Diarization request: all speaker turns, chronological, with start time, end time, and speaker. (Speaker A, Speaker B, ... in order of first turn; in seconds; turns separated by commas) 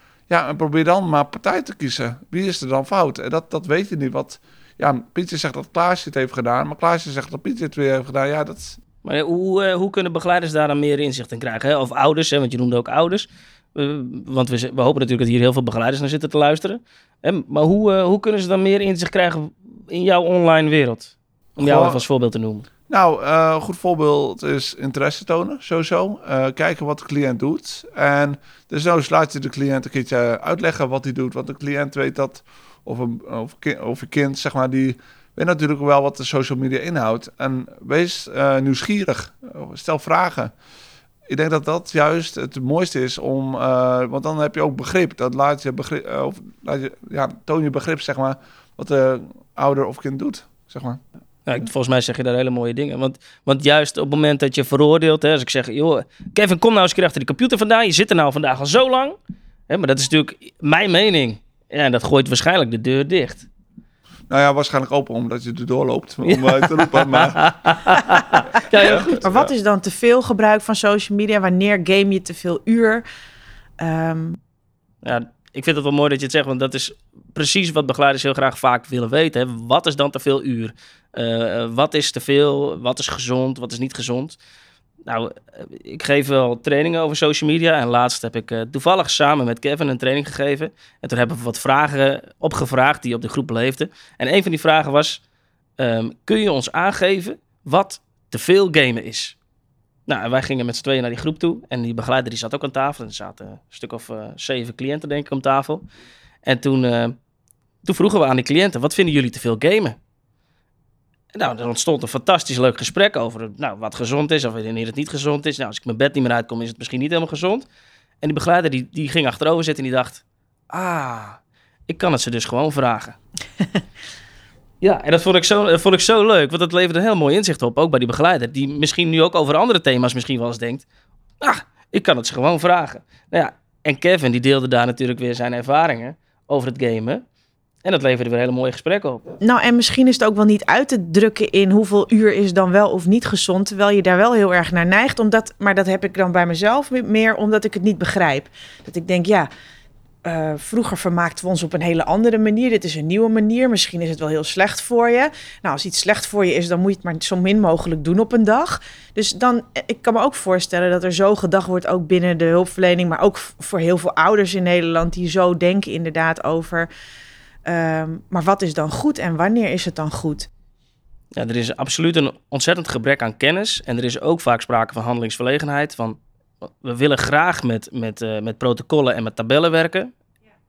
Speaker A: 0.3-8.8, Speaker B: 9.0-22.7, Speaker A: 21.6-22.0, Speaker A: 22.9-40.5, Speaker A: 41.3-51.0, Speaker B: 51.5-59.2, Speaker B: 59.7-63.5, Speaker A: 64.3-68.0, Speaker B: 66.3-69.2, Speaker A: 68.7-69.5, Speaker C: 69.2-73.0, Speaker C: 73.8-74.4, Speaker B: 75.0-84.4, Speaker B: 85.1-95.2, Speaker B: 95.8-99.4, Speaker B: 100.1-105.8, Speaker B: 106.4-107.2, Speaker B: 107.8-110.0, Speaker B: 111.3-117.7, Speaker B: 118.2-123.2, Speaker B: 124.8-130.9, Speaker B: 131.4-137.2, Speaker B: 137.8-139.3, Speaker C: 139.4-149.5, Speaker C: 150.2-166.9, Speaker C: 167.7-170.5, Speaker B: 171.4-180.1